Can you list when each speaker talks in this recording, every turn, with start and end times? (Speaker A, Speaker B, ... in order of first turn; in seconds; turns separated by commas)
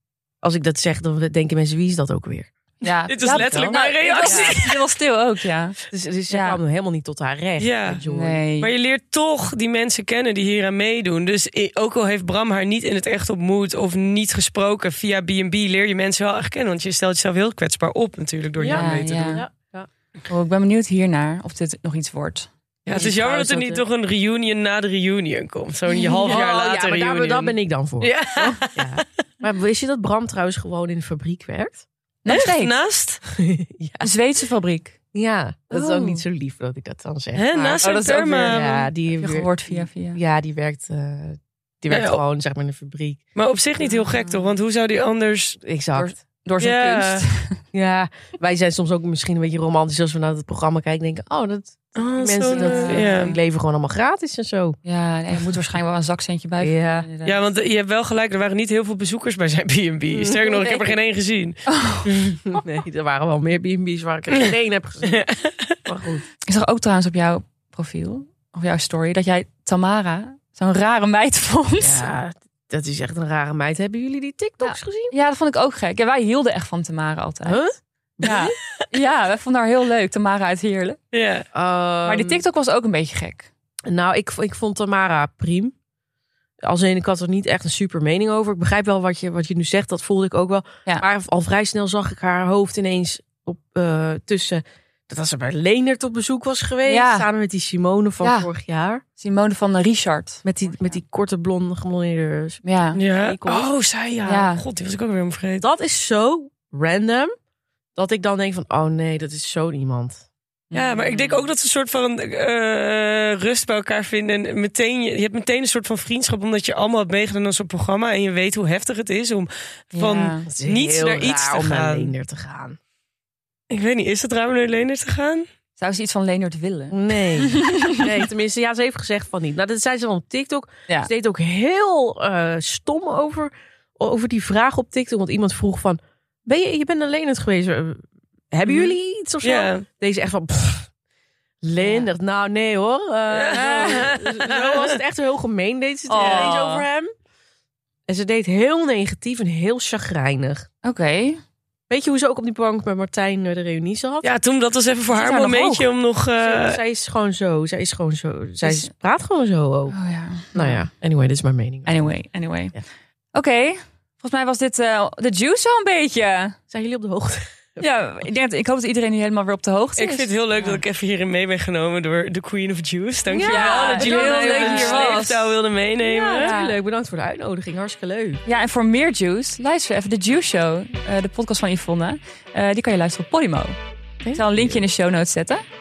Speaker A: 0.4-2.5, Speaker B: 2.8-5.8, Speaker C: 3.1-4.8, Speaker A: 3.4-4.6, Speaker A: 5.9-8.4, Speaker B: 6.3-6.6, Speaker C: 7.6-8.0, Speaker B: 8.1-8.7, Speaker C: 8.6-19.4, Speaker A: 18.6-19.9, Speaker B: 18.7-19.5, Speaker B: 20.3-23.1, Speaker C: 22.9-29.0, Speaker A: 22.9-23.8, Speaker A: 26.1-31.9, Speaker B: 32.2-32.7, Speaker C: 32.3-33.2, Speaker A: 33.3-34.1, Speaker B: 34.0-35.0, Speaker A: 35.1-37.8, Speaker B: 35.7-36.2, Speaker C: 37.4-38.8, Speaker B: 37.8-40.2, Speaker A: 38.5-43.2, Speaker C: 41.9-42.2, Speaker C: 43.4-45.6, Speaker B: 43.8-44.5, Speaker A: 45.6-46.1, Speaker B: 46.0-47.6, Speaker C: 46.6-47.2, Speaker A: 47.7-54.8, Speaker C: 52.0-53.4, Speaker B: 52.5-53.3, Speaker B: 54.8-57.5, Speaker A: 56.6-57.1, Speaker C: 57.2-62.4, Speaker A: 60.1-61.0, Speaker B: 61.7-62.0, Speaker A: 62.5-65.3, Speaker C: 65.2-65.5, Speaker A: 65.8-66.2, Speaker B: 66.5-72.1, Speaker A: 71.8-75.1, Speaker B: 74.6-77.7, Speaker A: 77.4-78.5, Speaker B: 78.2-81.0, Speaker C: 81.1-81.5, Speaker A: 81.5-82.4, Speaker B: 82.0-83.5, Speaker A: 83.9-85.7, Speaker A: 86.6-99.0, Speaker B: 96.9-97.3, Speaker B: 98.2-98.5, Speaker B: 99.2-101.0, Speaker A: 100.4-103.7, Speaker B: 102.6-103.0, Speaker C: 103.0-105.6, Speaker B: 104.3-104.6, Speaker A: 105.6-107.3, Speaker A: 108.0-110.2, Speaker B: 110.7-111.5, Speaker C: 110.7-122.1, Speaker B: 119.9-120.5, Speaker A: 120.5-122.8, Speaker C: 123.7-125.5, Speaker B: 125.8-128.1, Speaker A: 126.9-138.0, Speaker A: 138.5-140.9, Speaker C: 139.4-139.8, Speaker A: 141.6-147.1, Speaker B: 141.8-142.1, Speaker C: 143.3-144.9, Speaker B: 143.5-144.1, Speaker B: 146.1-146.9, Speaker C: 146.2-146.6, Speaker A: 148.1-150.7, Speaker B: 150.8-151.4, Speaker A: 151.9-154.3, Speaker C: 154.2-156.8, Speaker A: 155.1-159.9, Speaker B: 158.6-158.9, Speaker B: 159.9-160.9, Speaker A: 160.5-162.1, Speaker B: 161.9-162.8, Speaker B: 163.3-166.6, Speaker A: 166.7-167.9, Speaker B: 167.8-170.8, Speaker C: 170.0-176.6, Speaker A: 173.3-175.3, Speaker B: 173.4-176.8, Speaker A: 176.1-178.4, Speaker B: 178.4-183.8, Speaker A: 184.2-184.8, Speaker B: 184.3-185.6